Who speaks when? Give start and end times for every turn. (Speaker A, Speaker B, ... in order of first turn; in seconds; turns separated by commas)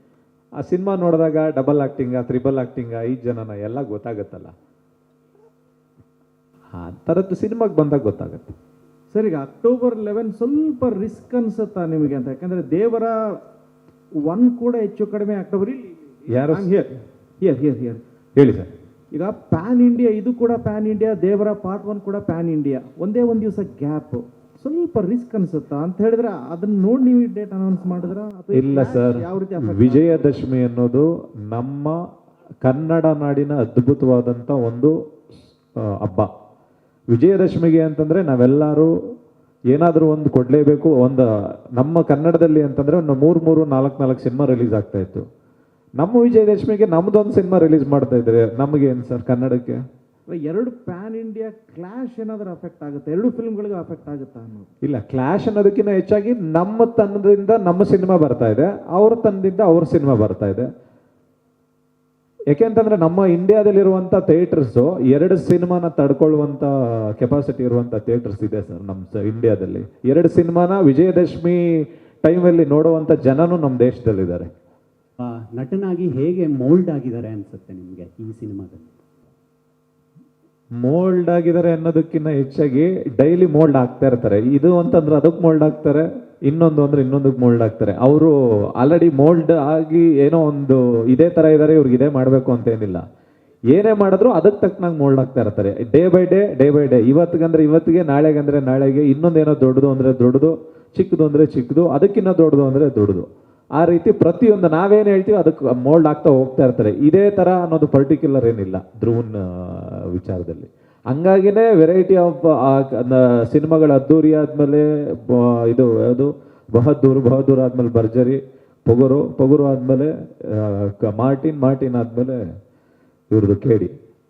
Speaker A: 0.6-4.5, Speaker A: 6.7-8.5, Speaker B: 9.1-13.4, Speaker B: 14.2-15.9, Speaker A: 16.3-16.8, Speaker B: 16.5-16.9, Speaker B: 17.4-18.0, Speaker A: 18.4-18.7, Speaker B: 19.1-30.4, Speaker A: 28.5-32.0, Speaker A: 32.6-34.9, Speaker A: 35.8-36.3, Speaker A: 37.1-38.9, Speaker A: 39.7-45.2, Speaker A: 46.0-49.8, Speaker B: 50.3-54.7, Speaker A: 54.8-60.7, Speaker A: 62.5-74.5, Speaker C: 75.2-78.9, Speaker A: 80.8-93.0, Speaker A: 93.7-122.4, Speaker A: 123.3-123.9